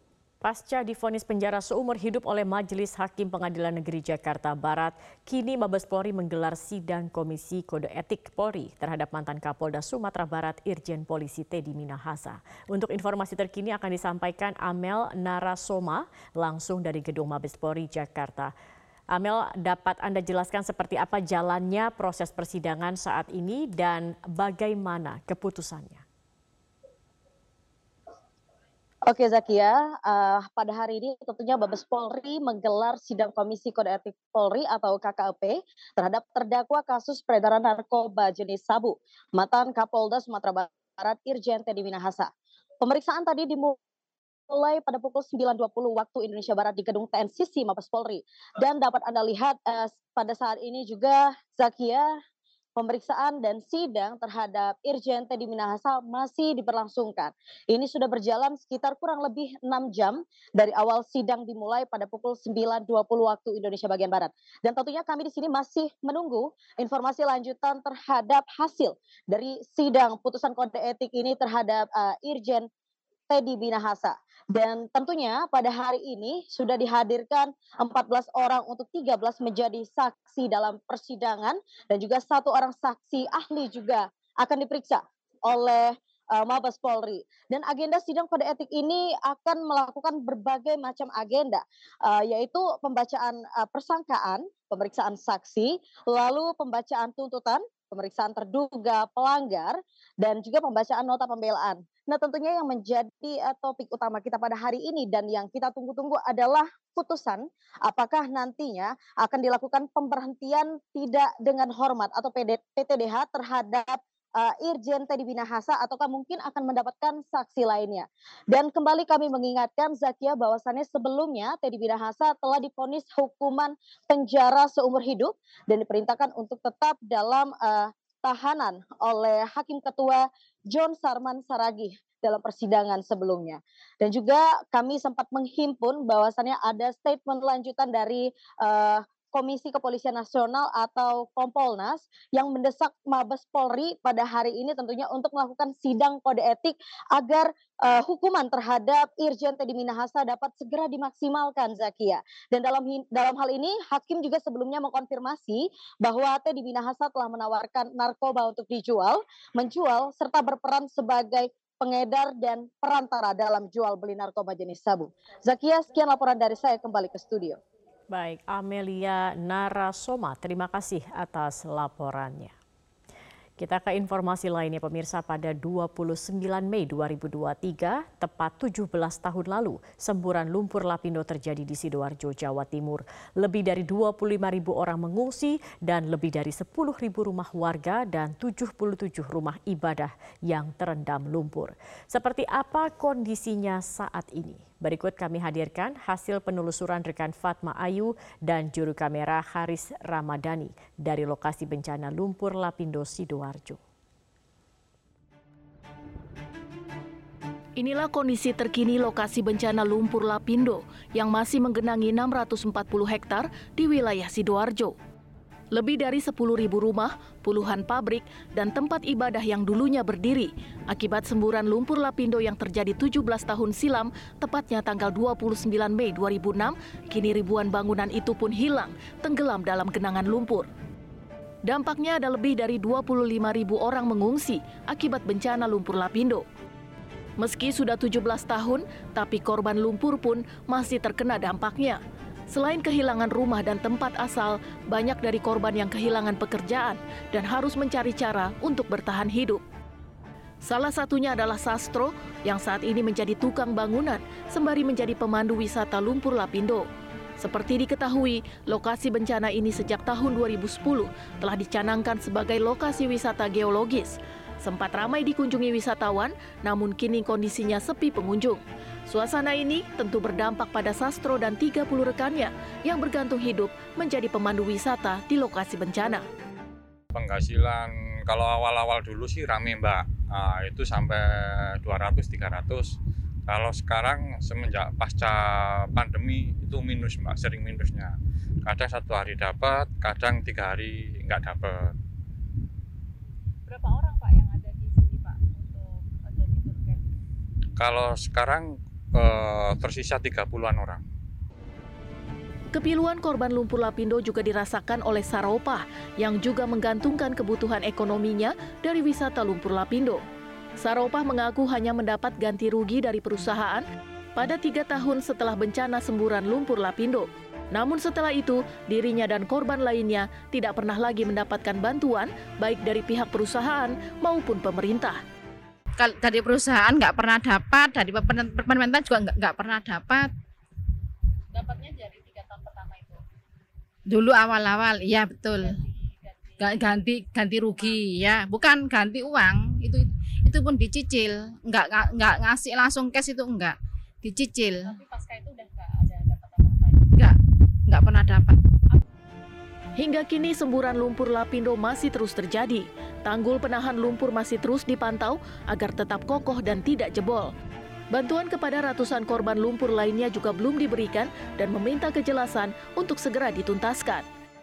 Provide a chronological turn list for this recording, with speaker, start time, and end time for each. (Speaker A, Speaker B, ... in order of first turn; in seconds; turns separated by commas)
Speaker A: 0.4-18.5, Speaker A: 19.1-26.0, Speaker B: 29.1-42.3, Speaker B: 42.8-43.8, Speaker B: 44.5-52.1, Speaker B: 52.8-72.7, Speaker B: 73.3-167.6, Speaker A: 168.1-172.5, Speaker A: 173.6-203.8, Speaker C: 207.8-214.9, Speaker C: 215.7-230.7, Speaker C: 231.7-236.4, Speaker C: 237.4-242.0, Speaker C: 242.5-249.6, Speaker C: 250.6-256.9, Speaker C: 257.4-276.2, Speaker D: 277.1-283.0, Speaker D: 283.5-291.9, Speaker E: 293.7-297.1, Speaker D: 297.8-301.0, Speaker C: 302.7-310.2, Speaker C: 310.8-313.8, Speaker C: 314.4-325.2, Speaker F: 326.0-330.3, Speaker E: 331.5-333.2, Speaker F: 334.1-335.8, Speaker E: 335.6-338.2, Speaker F: 336.6-344.9, Speaker E: 344.8-347.1, Speaker F: 347.1-348.6, Speaker C: 350.0-357.5, Speaker C: 358.1-364.2